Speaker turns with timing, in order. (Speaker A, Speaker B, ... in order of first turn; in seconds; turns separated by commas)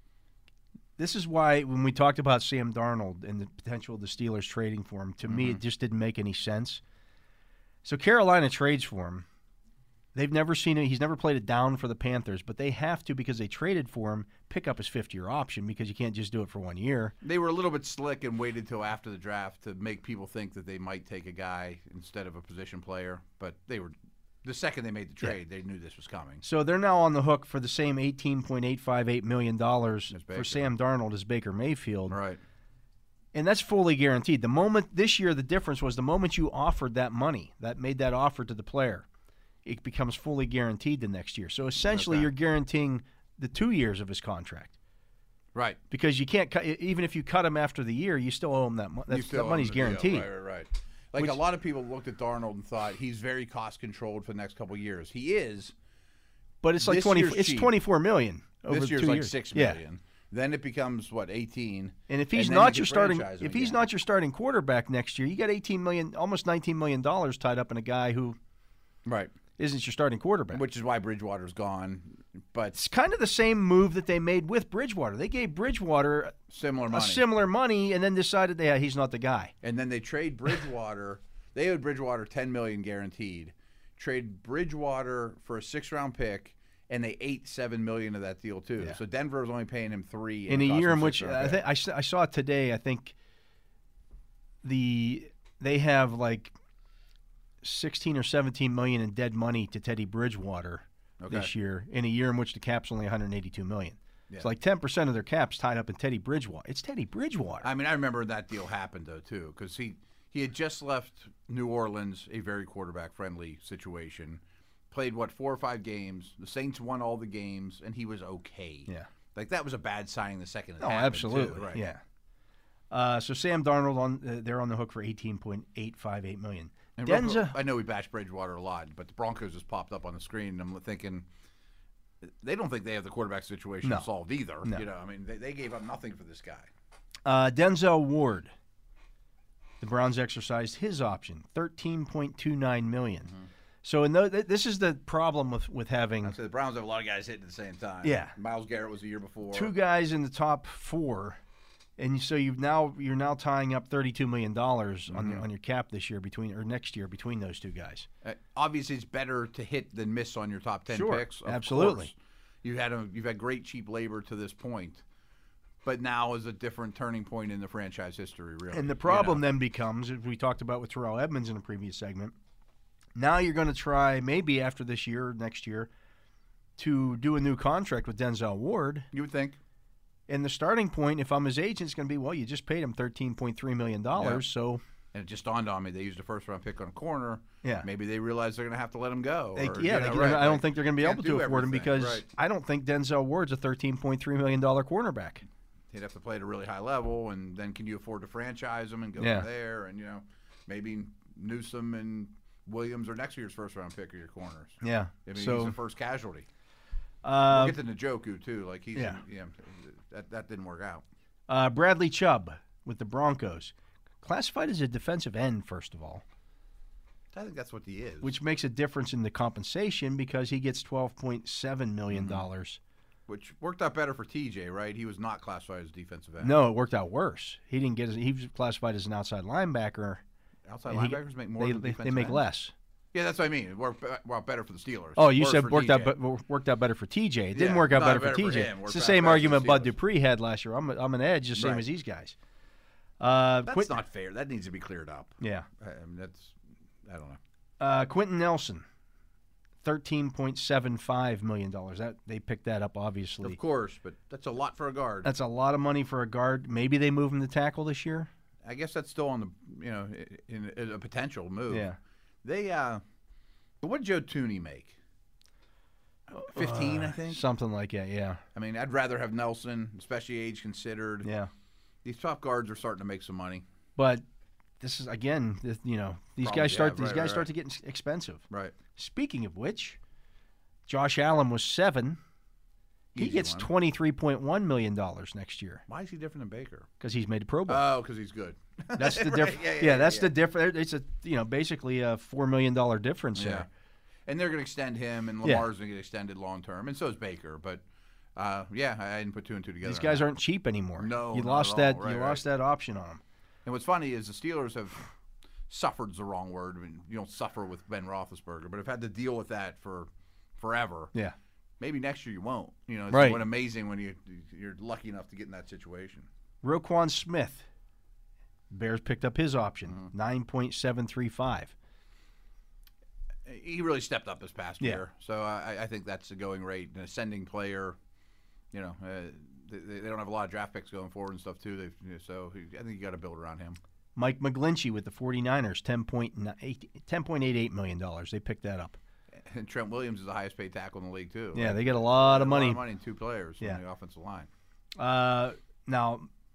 Speaker A: 1.0-6.8, Speaker B: 5.3-5.6, Speaker A: 7.8-9.3, Speaker A: 10.1-17.1, Speaker B: 17.2-26.4, Speaker A: 26.4-32.2, Speaker B: 30.1-30.7, Speaker B: 32.1-32.4, Speaker A: 33.3-39.1, Speaker A: 39.6-44.8, Speaker B: 41.8-42.3, Speaker B: 45.5-45.8, Speaker A: 45.9-50.3, Speaker B: 49.1-55.7, Speaker A: 56.6-59.8, Speaker B: 56.8-57.7, Speaker B: 58.7-63.8, Speaker A: 62.1-68.4, Speaker B: 69.0-69.3, Speaker A: 69.6-70.6, Speaker B: 70.5-72.8, Speaker A: 72.7-76.4, Speaker B: 76.5-77.2, Speaker A: 76.9-79.5, Speaker B: 79.6-91.7, Speaker A: 90.5-93.2, Speaker A: 94.6-96.5, Speaker A: 97.6-107.7, Speaker B: 101.2-101.5, Speaker B: 107.6-121.8, Speaker A: 120.8-122.0, Speaker A: 122.9-127.6, Speaker B: 127.0-131.3, Speaker B: 132.2-136.7, Speaker A: 137.2-138.5, Speaker A: 139.8-143.3, Speaker A: 143.8-146.4, Speaker B: 146.2-149.7, Speaker A: 148.0-148.3, Speaker A: 149.5-151.4, Speaker A: 152.0-158.1, Speaker B: 155.1-155.4, Speaker B: 158.2-165.0, Speaker A: 160.9-162.1, Speaker B: 165.8-169.4, Speaker A: 168.7-172.3, Speaker A: 173.2-175.9, Speaker A: 176.8-179.1, Speaker B: 179.1-179.6, Speaker A: 180.3-184.8, Speaker B: 184.2-184.5, Speaker B: 185.1-192.3, Speaker A: 189.6-195.4, Speaker B: 195.9-206.5, Speaker A: 199.2-199.5, Speaker A: 204.8-205.8, Speaker A: 207.2-207.8, Speaker B: 207.5-211.1, Speaker A: 208.9-209.2, Speaker A: 211.5-216.2, Speaker B: 217.3-218.3, Speaker A: 218.2-222.8, Speaker B: 222.1-222.5, Speaker B: 223.3-226.6, Speaker A: 226.4-230.2, Speaker B: 230.7-232.4, Speaker A: 230.9-232.7, Speaker B: 233.1-236.1, Speaker A: 235.2-242.4, Speaker B: 237.5-240.0, Speaker B: 241.6-241.9, Speaker A: 243.2-244.0, Speaker B: 243.7-247.4, Speaker A: 245.4-245.7, Speaker A: 247.8-248.8, Speaker A: 249.8-253.6, Speaker B: 253.4-255.3, Speaker A: 255.2-258.3, Speaker B: 258.6-261.9, Speaker A: 261.7-262.0, Speaker B: 262.4-263.0, Speaker B: 263.8-265.0, Speaker A: 266.3-268.4, Speaker B: 266.5-267.4, Speaker B: 268.6-271.3, Speaker A: 271.2-271.5, Speaker B: 272.0-273.7, Speaker A: 274.0-274.2, Speaker A: 274.8-280.0, Speaker B: 276.4-277.5, Speaker B: 278.5-278.8, Speaker A: 280.9-282.2, Speaker B: 283.1-283.7, Speaker A: 283.2-285.8, Speaker B: 285.9-286.9, Speaker A: 287.0-287.8, Speaker B: 287.7-290.4, Speaker A: 289.0-293.7, Speaker B: 293.4-293.7, Speaker B: 294.3-297.8, Speaker B: 298.4-300.3, Speaker A: 299.8-303.2, Speaker B: 301.0-302.4, Speaker B: 303.6-305.0, Speaker B: 305.7-311.1, Speaker B: 311.8-316.3, Speaker A: 313.1-313.4, Speaker A: 316.6-317.7, Speaker A: 318.7-321.7, Speaker B: 323.5-328.0, Speaker B: 328.7-333.8, Speaker A: 334.2-339.0, Speaker B: 339.3-344.5, Speaker A: 341.5-342.8, Speaker A: 345.0-346.3